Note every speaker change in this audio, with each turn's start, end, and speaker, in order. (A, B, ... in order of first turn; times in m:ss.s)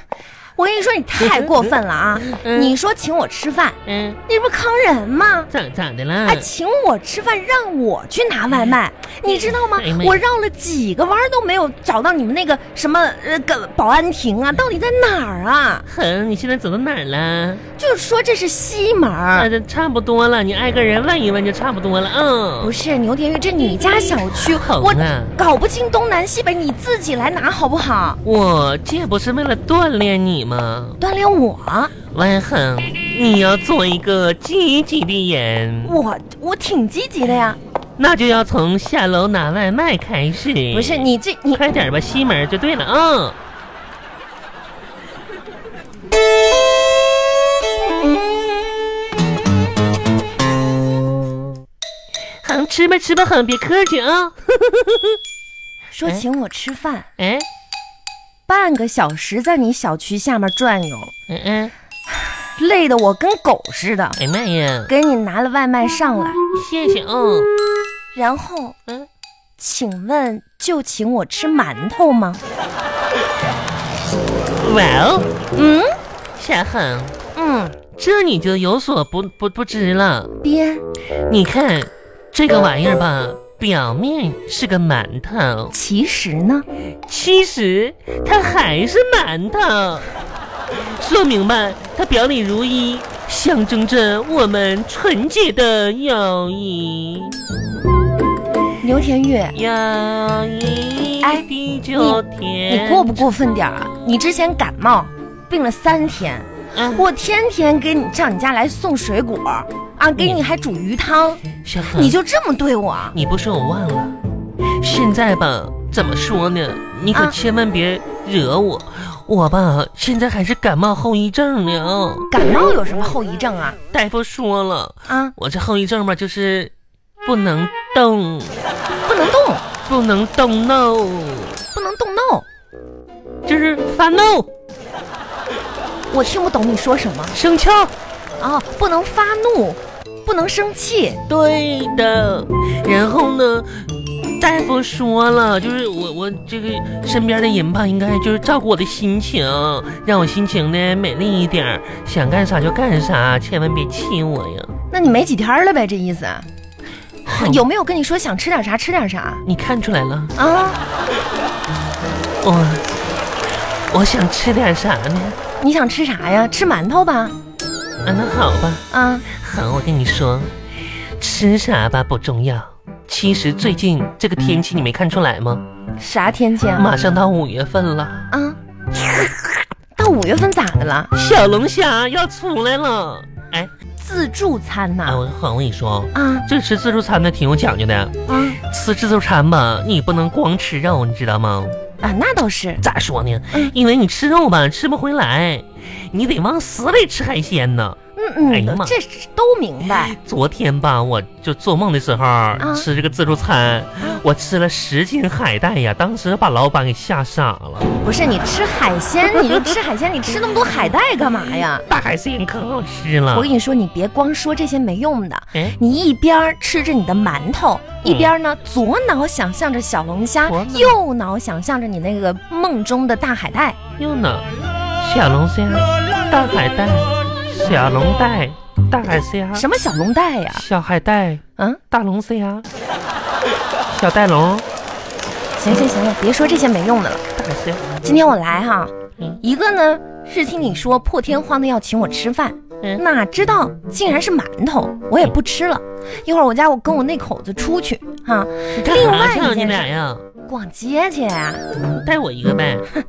0:00.6-0:05.5 A
0:01.2-0:01.7 B
0:02.3-0:02.8 B
0:03.9-0:04.2 B
0:05.5-0:06.5 B
0:06.2-0:15.9 A
0:09.3-0:10.2 B
0:15.9-0:17.6 B
0:17.8-0:19.5 A
0:19.4-0:22.7 B
0:22.6-0:28.2 A
0:24.3-0:25.4 B
0:28.2-0:31.0 B
0:31.0-0:31.9 A
0:32.1-0:36.0 B
0:35.8-0:37.6 A
0:38.0-0:43.4 B
0:40.7-0:41.6 A
0:52.4-0:55.2 B
0:55.9-0:57.1 A
0:57.2-0:57.5 B
0:58.5-1:01.1 A
1:01.3-1:01.7 B
1:02.1-1:04.2 A
1:04.2-1:04.9 B
1:04.9-1:06.4 A
1:06.5-1:07.5 B
1:08.1-1:08.8 A
1:09.6-1:12.4 A
1:14.5-1:15.4 B
1:15.6-1:15.9 A
1:16.4-1:17.2 B
1:17.4-1:17.8 A
1:18.0-1:20.3 B
1:20.4-1:20.8 A
1:21.3-1:25.7 B
1:25.7-1:26.7 A
1:27.1-1:30.1 B
1:30.8-1:37.4 B
1:38.8-1:39.6 A
1:39.5-1:43.2 B
1:41.2-1:51.4 A
1:46.7-1:47.0 B
1:50.2-1:50.4 B
1:51.6-1:52.2 B
1:51.9-1:53.2 A
1:53.1-1:54.2 B
1:54.8-2:02.3 B
1:57.1-1:57.4 A
2:02.3-2:03.8 A
2:03.9-2:06.7 B
2:05.1-2:05.3 A
2:07.2-2:08.6 B
2:09.1-2:09.6 A
2:09.9-2:11.6 B
2:11.7-2:12.5 A
2:13.4-2:14.5 B
2:16.1-2:17.4 A
2:17.3-2:17.9 B
2:18.4-2:21.2 A
2:21.3-2:23.9 B
2:24.4-2:34.7 B
2:34.9-2:36.5 A
2:37.2-2:37.6 B
2:37.3-2:39.4 A
2:39.4-2:40.3 B
2:40.4-2:40.8 A
2:42.4-2:42.9 B
2:43.9-2:45.4 B
2:45.6-2:47.3 A
2:48.0-2:50.5 B
2:48.9-2:49.2 A
2:51.2-2:55.6 B
2:56.0-2:56.9 A
2:56.8-2:58.3 B
2:58.3-2:58.6 A
3:00.0-3:01.1 A
3:01.1-3:03.7 B
3:04.0-3:05.2 A
3:05.1-3:11.8 B
3:06.1-3:06.5 A
3:08.3-3:08.6 A
3:12.0-3:12.8 A
3:12.8-3:18.0 B
3:18.2-3:20.2 A
3:18.5-3:19.0 B
3:19.9-3:27.9 B
3:22.6-3:22.9 A
3:28.0-3:31.9 A
3:31.9-3:33.5 B
3:33.3-3:43.8 A
3:38.0-3:38.3 B
3:40.4-3:41.0 B
3:44.0-3:44.5 B
3:45.0-3:49.6 B
3:49.5-3:50.6 A
3:50.5-3:52.7 B
3:53.9-3:54.6 B
3:55.6-3:57.2 A
3:57.4-3:57.9 B
3:58.0-4:09.9 A
4:08.7-4:10.2 B
4:10.5-4:11.6 A
4:11.9-4:12.9 B